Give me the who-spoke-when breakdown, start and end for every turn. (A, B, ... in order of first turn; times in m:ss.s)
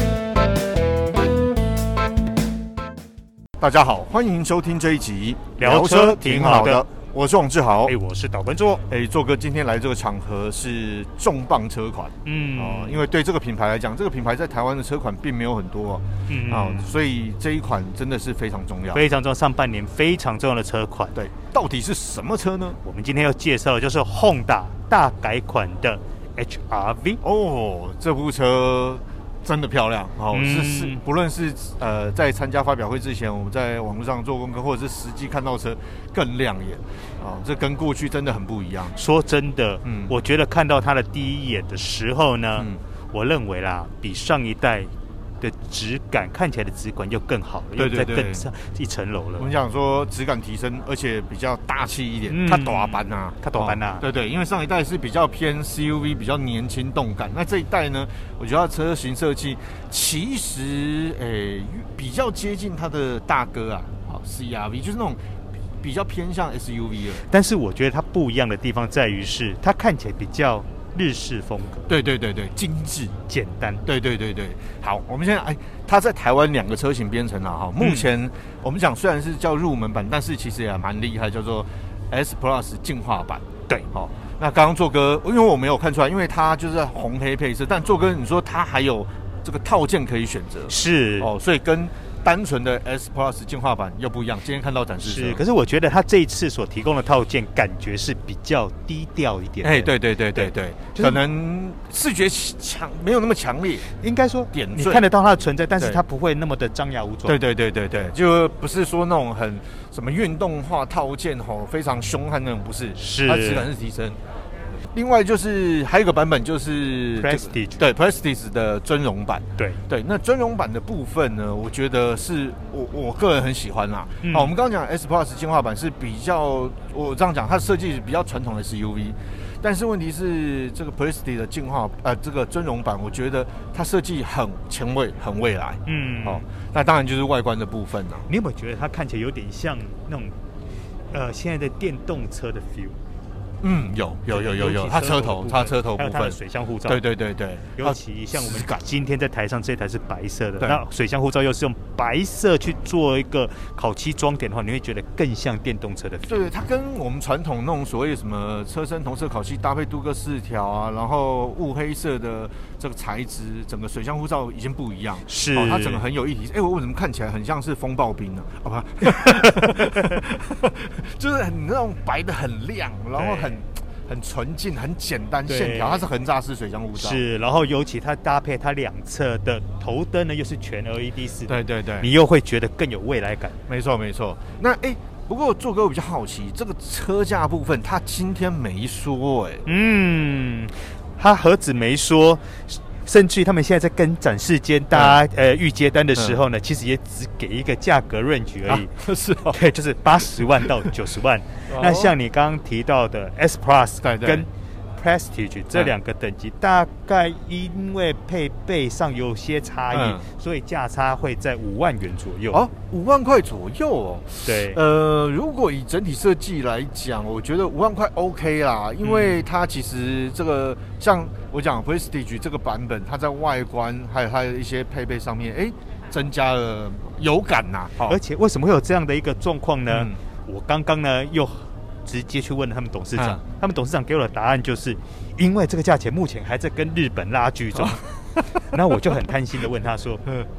0:03.6-0:07.9 A
0:05.6-0:06.8 B
0:07.9-0:08.8 B
0:08.9-0:19.0 A
0:12.2-0:13.0 B
0:16.3-0:16.9 B
0:18.9-0:21.2 B
0:21.2-0:22.8 A
0:22.8-0:27.2 B
0:27.2-0:39.0 A
0:30.3-0:31.0 B
0:38.9-0:49.5 B
0:39.8-0:40.1 A
0:47.8-0:48.5 A
0:49.4-1:05.2 A
0:52.3-0:54.0 B
1:05.8-1:07.3 A
1:07.2-1:11.9 B
1:11.9-1:13.2 A
1:13.3-1:13.8 B
1:13.9-1:35.4 A
1:17.8-1:18.1 B
1:30.7-1:31.3 B
1:35.0-1:41.2 B
1:39.6-1:43.8 A
1:44.0-1:47.4 B
1:44.5-1:45.0 A
1:47.2-1:54.2 A
1:53.0-1:53.7 B
1:54.9-2:18.3 A
1:57.2-1:57.8 B
2:04.2-2:04.5 B
2:15.9-2:16.4 B
2:18.3-2:20.3 B
2:21.1-2:23.0 B
2:23.6-2:28.8 A
2:24.3-2:27.0 B
2:27.8-2:36.6 B
2:36.3-2:57.2 A
2:45.3-2:46.0 B
2:49.0-2:50.2 B
2:53.2-2:53.6 B
2:55.5-2:56.1 B
2:57.0-3:03.6 B
3:01.5-3:02.1 A
3:03.7-3:09.6 A
3:09.7-3:18.9 B
3:14.9-3:15.2 A
3:18.7-3:19.6 A
3:19.5-3:32.6 B
3:21.7-3:22.2 A
3:24.0-3:24.5 A
3:29.9-3:30.3 A
3:32.5-3:48.2 A
3:34.4-3:34.8 B
3:39.0-3:39.4 B
3:48.0-3:58.0 B
3:49.9-3:50.2 A
3:53.2-3:53.4 A
3:57.8-3:58.4 A
3:58.6-4:00.3 B